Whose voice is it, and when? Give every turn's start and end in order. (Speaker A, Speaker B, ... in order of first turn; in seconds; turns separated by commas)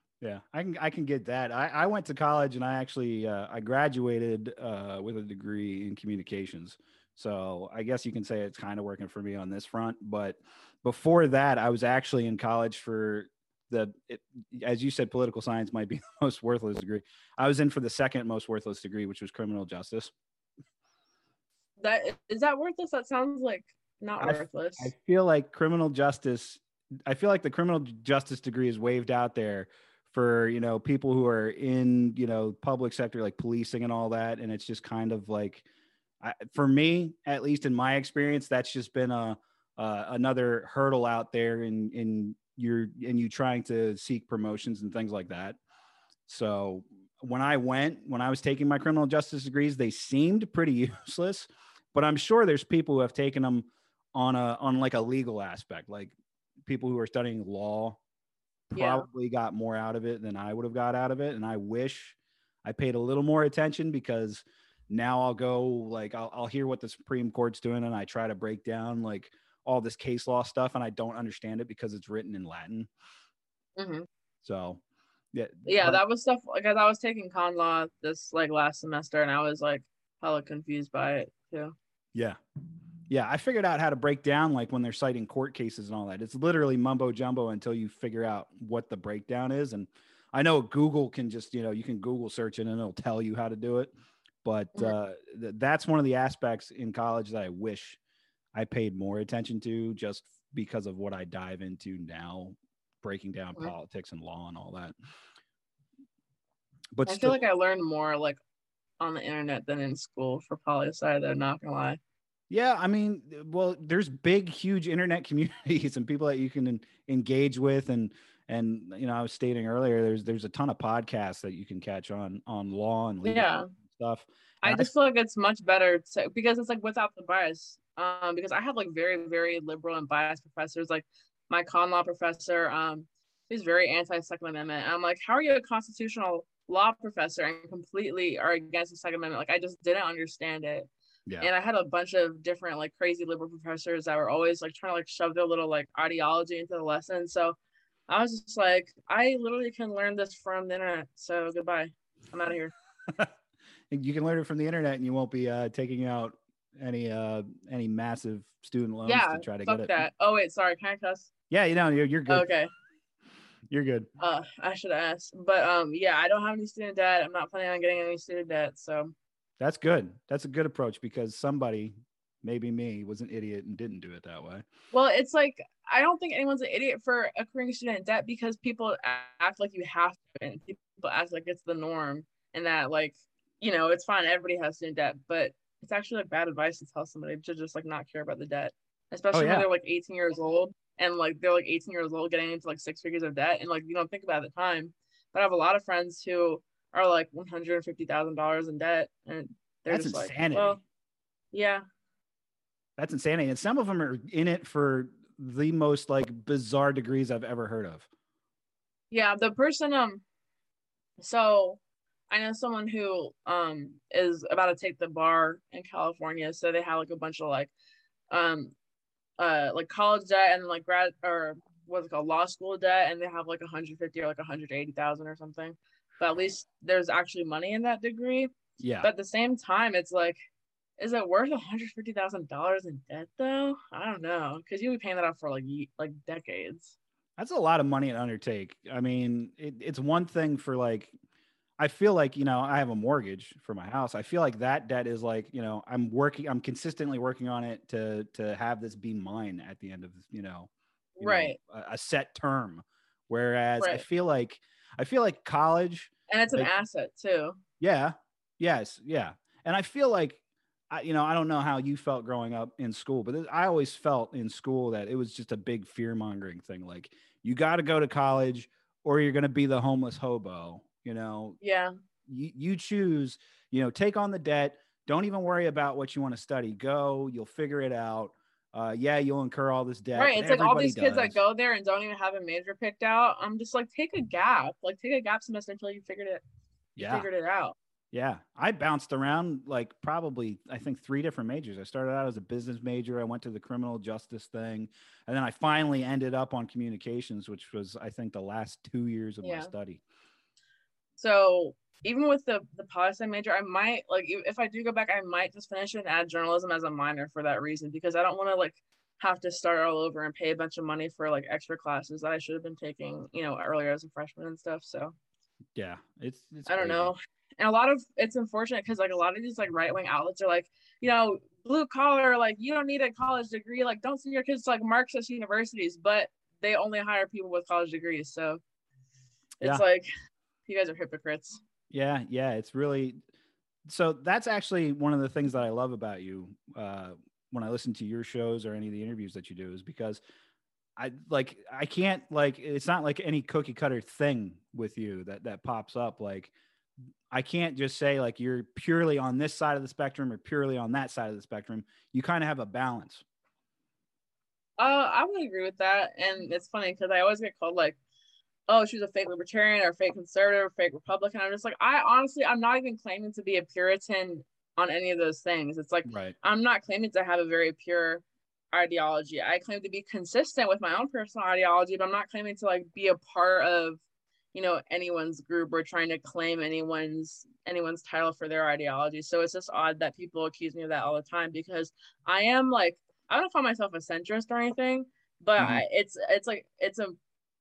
Speaker A: 0.2-20.1, Speaker B: 21.8-24.9, Speaker A: 24.2-35.6, Speaker A: 36.2-45.6, Speaker A: 46.3-56.1, Speaker A: 56.6-58.0, Speaker A: 58.7-72.9, Speaker B: 58.7-59.1, Speaker B: 73.8-74.1, Speaker A: 74.4-74.8, Speaker A: 75.3-76.0, Speaker B: 75.7-81.7, Speaker A: 83.1-93.9, Speaker A: 94.4-98.0, Speaker A: 98.5-104.9, Speaker A: 106.9-107.4, Speaker B: 107.1-108.4, Speaker B: 109.0-112.0, Speaker A: 112.5-124.9, Speaker B: 123.2-123.7, Speaker B: 124.6-140.9, Speaker B: 141.4-147.6, Speaker B: 148.1-152.7, Speaker A: 153.9-160.0, Speaker B: 159.0-161.3, Speaker A: 161.5-162.4, Speaker B: 162.3-162.7, Speaker A: 163.7-164.1, Speaker B: 164.2-169.1, Speaker A: 169.6-174.7, Speaker B: 174.9-200.8, Speaker A: 189.3-189.7, Speaker A: 199.9-200.8, Speaker B: 201.5-201.8, Speaker A: 203.0-208.1, Speaker B: 209.1-210.2, Speaker B: 211.2-217.7, Speaker B: 218.3-218.7, Speaker B: 219.4-228.5, Speaker A: 228.8-229.1, Speaker B: 229.0-230.4, Speaker B: 231.0-236.9, Speaker A: 237.4-241.1, Speaker A: 241.8-250.7, Speaker B: 251.2-251.6, Speaker A: 251.2-256.7, Speaker B: 256.3-257.6, Speaker A: 257.8-271.6, Speaker B: 271.6-271.9, Speaker A: 272.3-281.4, Speaker B: 280.1-286.4, Speaker B: 286.9-287.8, Speaker A: 287.0-287.3, Speaker A: 288.1-300.0, Speaker B: 299.4-299.7, Speaker B: 301.2-315.1, Speaker A: 315.7-317.1, Speaker B: 316.7-328.6, Speaker B: 329.6-330.1, Speaker B: 330.7-331.6, Speaker A: 331.9-333.2, Speaker A: 333.9-340.2, Speaker A: 341.0-346.5, Speaker A: 347.3-353.2, Speaker B: 354.8-358.0, Speaker B: 358.7-374.0, Speaker A: 366.1-366.3, Speaker B: 374.5-387.2, Speaker A: 385.6-385.8